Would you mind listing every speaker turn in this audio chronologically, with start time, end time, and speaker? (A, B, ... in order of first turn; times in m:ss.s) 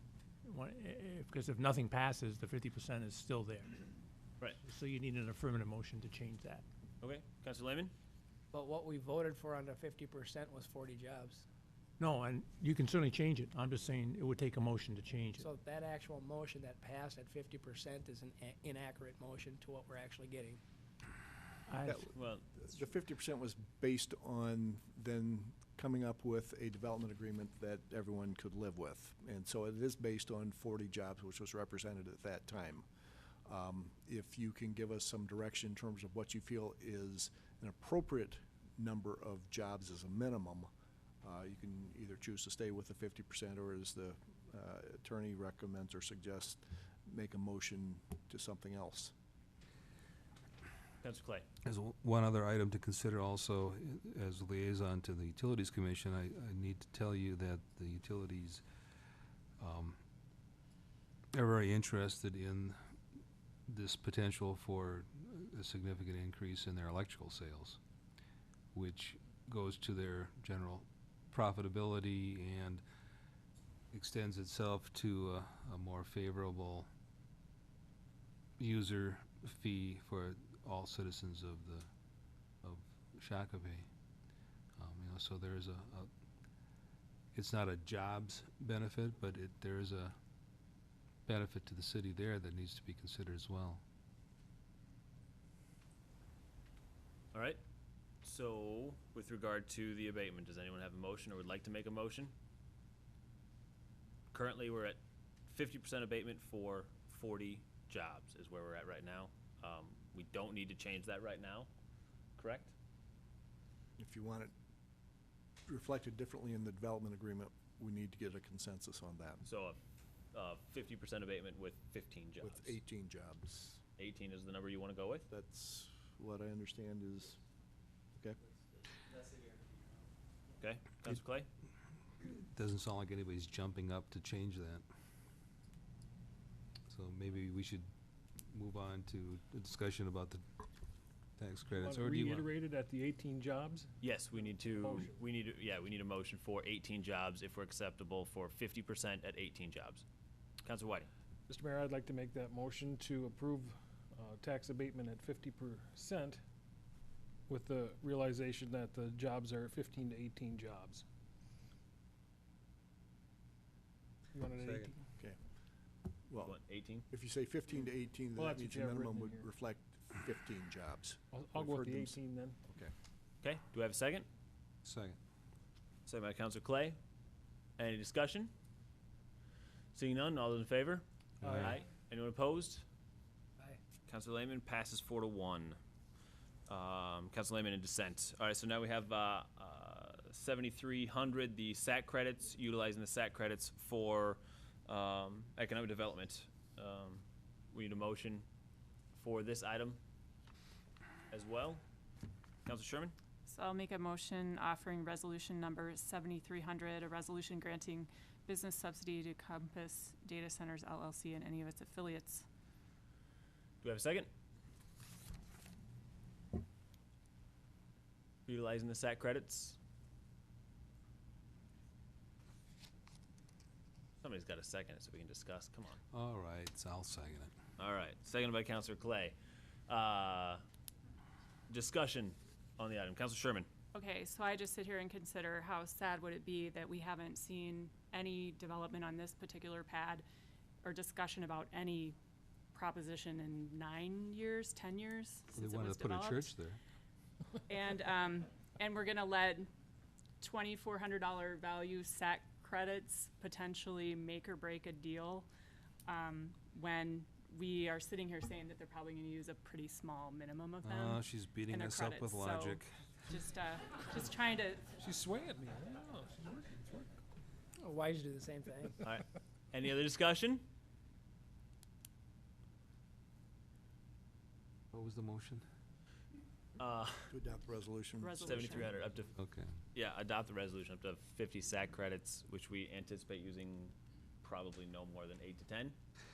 0:00.4-0:03.8 A
0:04.6-0:06.6 A
0:07.0-0:07.9 B
0:08.5-0:11.4 C
0:12.0-0:15.5 A
0:15.4-0:20.6 C
0:21.7-0:22.0 A
0:21.8-0:32.8 D
0:22.2-0:22.4 B
0:33.4-0:40.7 D
0:41.2-0:49.1 D
0:51.0-0:51.4 B
0:51.6-0:58.6 E
0:59.6-1:00.0 E
1:01.3-1:02.8 E
1:03.7-1:07.8 E
1:08.7-1:12.8 E
1:13.9-1:16.9 E
1:18.6-1:21.9 E
1:22.6-1:23.8 E
1:24.8-1:26.1 E
1:27.3-1:30.1 E
1:31.3-1:33.8 E
1:37.3-1:37.6 B
1:38.2-1:42.3 B
1:44.3-1:51.7 B
1:52.4-1:52.7 B
1:54.0-1:54.5 D
1:55.6-1:59.4 D
1:59.4-1:59.8 B
2:00.3-2:02.8 B
2:02.4-2:03.8 D
2:04.0-2:05.3 B
2:05.3-2:07.4 D
2:10.6-2:11.5 B
2:12.2-2:14.8 E
2:16.9-2:17.9 E
2:18.5-2:20.4 E
2:21.4-2:22.5 E
2:21.8-2:23.9 F
2:24.0-2:30.0 B
2:24.7-2:25.2 F
2:30.6-2:31.1 B
2:31.5-2:36.4 F
2:37.5-2:41.0 F
2:44.3-2:45.0 F
2:44.6-2:44.9 E
2:46.3-2:52.2 D
2:46.4-2:47.0 B
2:47.8-2:49.4 F
2:51.3-2:52.6 F
2:53.4-2:54.3 B
2:54.8-2:55.2 E
2:56.0-2:57.0 B
2:57.8-2:58.5 B
2:59.9-3:02.8 B
3:01.4-3:01.8 F
3:01.4-3:01.7 E
3:04.1-3:05.8 B
3:06.7-3:18.4 B
3:19.1-3:20.0 B
3:21.3-3:21.8 B
3:22.6-3:23.1 B
3:23.5-3:32.4 G
3:33.8-3:34.3 B
3:38.5-3:39.8 B
3:44.2-3:46.0 B
3:46.1-3:47.5 E
3:47.8-3:49.3 B
3:49.9-3:50.6 B
3:51.7-3:53.7 B
3:53.9-4:00.2 G
4:00.8-4:02.2 G
4:02.7-4:06.5 G
4:05.5-4:06.8 E
4:07.6-4:09.7 G
4:10.4-4:15.5 G
4:16.0-4:24.8 G
4:20.8-4:22.9 E
4:25.0-4:27.1 F
4:27.8-4:29.0 C
4:29.0-4:30.6 B
4:34.9-4:35.6 E
4:36.8-4:37.3 B
4:37.3-4:38.9 D
4:38.2-4:38.9 G
4:38.4-4:39.3 B
4:39.4-4:39.7 E
4:39.9-4:46.0 B